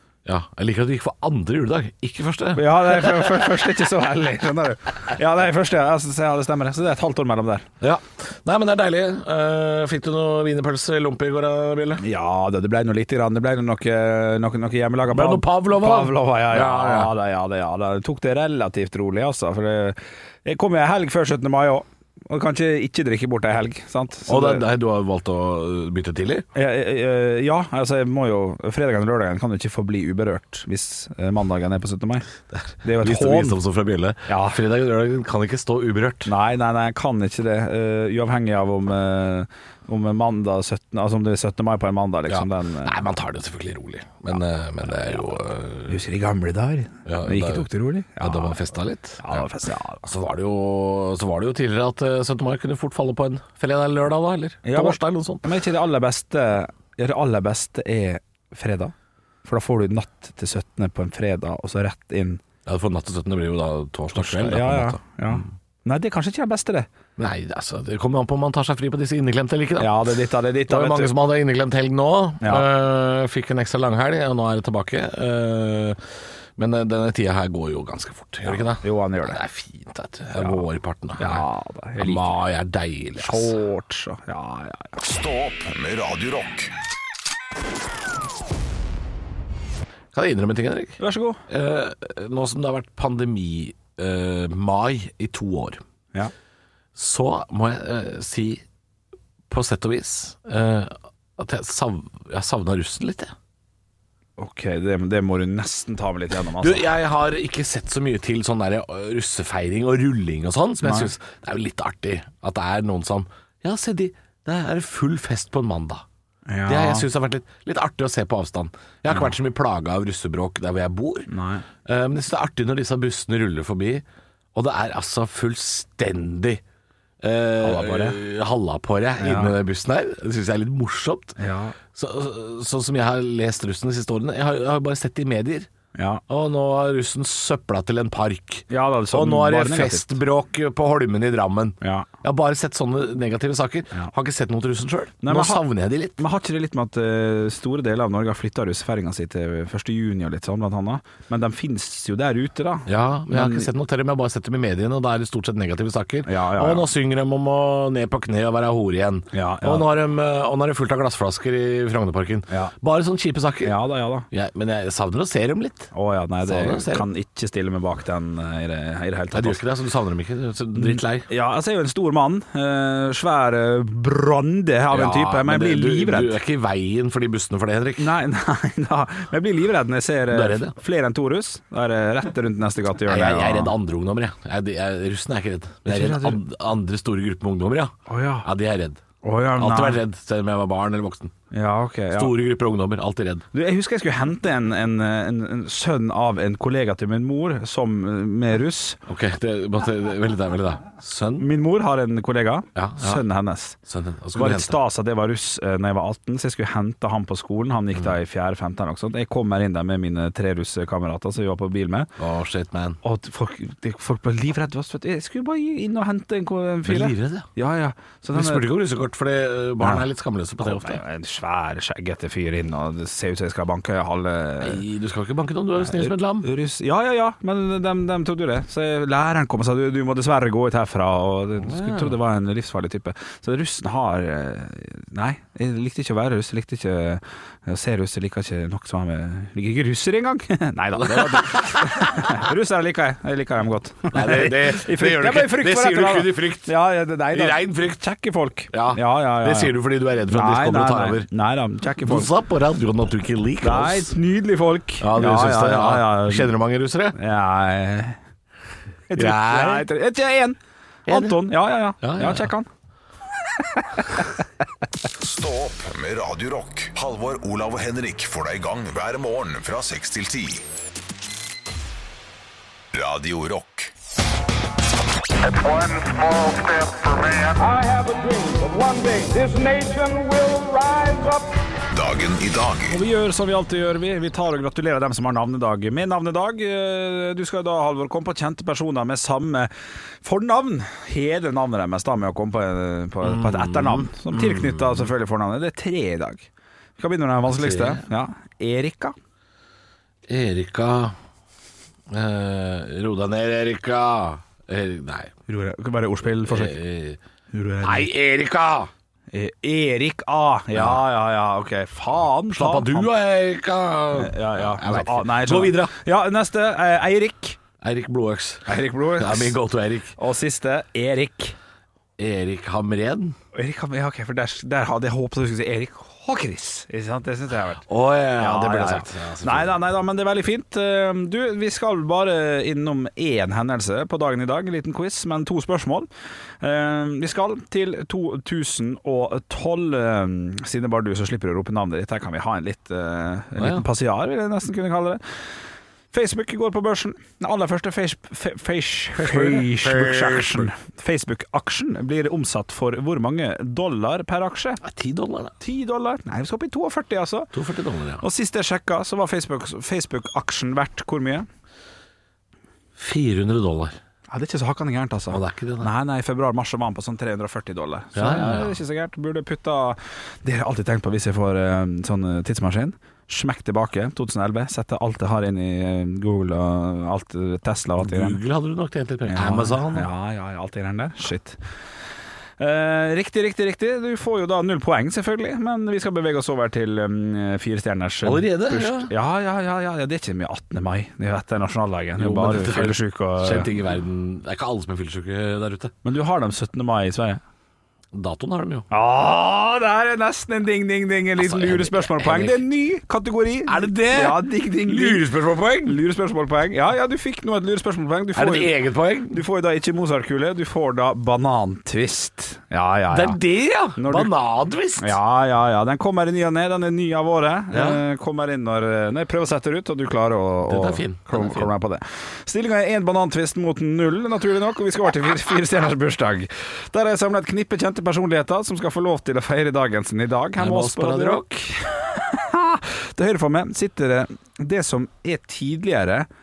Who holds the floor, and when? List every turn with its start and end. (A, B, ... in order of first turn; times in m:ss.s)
0:00.2-0:03.5 A
0:02.6-0:07.7 B
0:07.8-0:12.0 A
0:12.0-0:24.7 B
0:15.1-0:17.1 A
0:24.3-0:26.5 A
0:26.6-0:32.3 B
0:32.5-0:36.3 A
0:32.8-0:33.6 B
0:34.3-0:34.6 B
0:36.2-0:43.0 B
0:42.3-0:46.0 A
0:45.9-0:50.0 B
0:47.0-0:47.7 A
0:48.2-0:49.5 A
0:50.0-0:55.5 A
0:54.6-0:58.9 B
0:59.4-1:02.4 B
1:02.7-1:05.5 A
1:04.1-1:06.9 B
1:07.2-1:16.0 A
1:09.8-1:11.1 B
1:12.4-1:12.7 B
1:16.6-1:21.4 A
1:18.4-1:19.4 B
1:20.4-1:20.6 B
1:21.2-1:22.3 B
1:22.0-1:23.6 A
1:23.2-1:24.9 B
1:25.0-1:26.7 C
1:30.1-1:35.8 A
1:31.0-1:31.4 B
1:37.0-1:38.6 A
1:39.5-1:43.3 A
1:44.4-1:46.9 B
1:46.6-1:56.0 A
1:50.8-1:51.1 B
1:56.5-1:57.1 B
1:56.7-2:01.3 A
2:01.3-2:01.6 B
2:01.8-2:06.6 A
2:07.2-2:11.4 A
2:07.6-2:08.2 B
2:09.2-2:09.6 B
2:11.4-2:11.8 B
2:11.9-2:15.7 A
2:16.0-2:16.2 B
2:16.3-2:26.2 A
2:18.7-2:20.2 B
2:21.8-2:22.1 B
2:25.2-2:25.6 B
2:26.2-2:33.7 B
2:32.9-2:43.8 A
2:36.3-2:36.9 B
2:39.3-2:39.9 B
2:43.6-2:44.3 B
2:44.3-2:45.9 A
2:45.9-2:49.6 B
2:46.4-2:47.1 A
2:49.3-2:51.3 A
2:50.8-2:56.4 B
2:54.9-2:58.2 A
2:58.0-3:03.7 B
3:00.3-3:00.7 A
3:03.0-3:09.0 A
3:05.9-3:06.4 B
3:08.1-3:08.5 B
3:09.2-3:10.0 B
3:09.6-3:11.3 A
3:11.5-3:12.4 B
3:12.1-3:13.4 A
3:13.5-3:19.0 B
3:19.1-3:21.5 A
3:21.4-3:23.8 B
3:22.8-3:23.2 A
3:23.8-3:24.8 A
3:24.4-3:32.1 B
3:32.2-3:33.0 A
3:33.0-3:38.7 B
3:36.8-3:37.5 A
3:38.3-3:41.0 A
3:39.8-3:40.1 B
3:40.6-3:44.8 B
3:44.6-3:46.5 A
3:45.8-4:09.8 B
3:51.6-3:52.2 A
4:01.0-4:02.3 A
4:04.1-4:06.7 A
4:07.3-4:08.0 A
4:08.7-4:11.3 A
4:10.3-4:12.3 B
4:12.0-4:14.2 A
4:13.6-4:16.5 B
4:15.0-4:17.2 A
4:17.2-4:18.2 B
4:19.1-4:22.7 B
4:19.2-4:19.9 A
4:21.1-4:22.5 A
4:23.6-4:24.4 B
4:25.2-4:30.6 C
4:32.9-4:33.9 C
4:35.4-4:41.5 D
4:41.9-4:42.9 C
4:42.9-4:49.7 B
4:50.2-4:59.2 B
4:53.2-4:55.1 A
4:57.5-4:58.0 A
5:00.3-5:01.2 A
5:02.1-5:05.3 A
5:05.5-5:06.8 B
5:06.4-5:07.2 A
5:07.5-5:08.1 B
5:07.8-5:08.9 A
5:09.3-5:13.1 B
5:10.7-5:11.0 A
5:12.5-5:15.9 A
5:14.2-5:17.6 B
5:17.8-5:20.2 A
5:18.7-5:19.6 B
5:20.2-5:21.6 B
5:22.2-5:23.4 A
5:23.5-5:27.9 B
5:27.9-5:29.8 A
5:28.4-5:36.1 B
5:36.6-5:45.2 B
5:43.6-5:43.9 A
5:46.1-5:54.8 B
5:49.2-5:50.7 A
5:54.8-5:55.5 A
5:55.6-5:57.5 B
5:57.5-5:58.2 A
5:58.2-6:01.5 B
6:03.0-6:04.0 A
6:04.3-6:18.4 B
6:05.3-6:05.9 A
6:08.2-6:08.8 A
6:18.0-6:20.1 A
6:19.3-6:21.6 B
6:22.6-6:33.7 B
6:28.2-6:29.1 A
6:32.2-6:35.9 A
6:36.0-6:37.4 B
6:38.1-6:38.9 A
6:38.9-6:45.2 B
6:41.4-6:42.6 A
6:43.7-6:46.0 A
6:45.8-6:48.8 B
6:48.4-6:49.4 A
6:49.3-6:53.4 B
6:53.1-6:55.2 A
6:54.0-6:54.3 B
6:55.0-7:16.3 B
6:57.7-6:58.0 A
7:00.7-7:01.7 A
7:10.6-7:11.5 A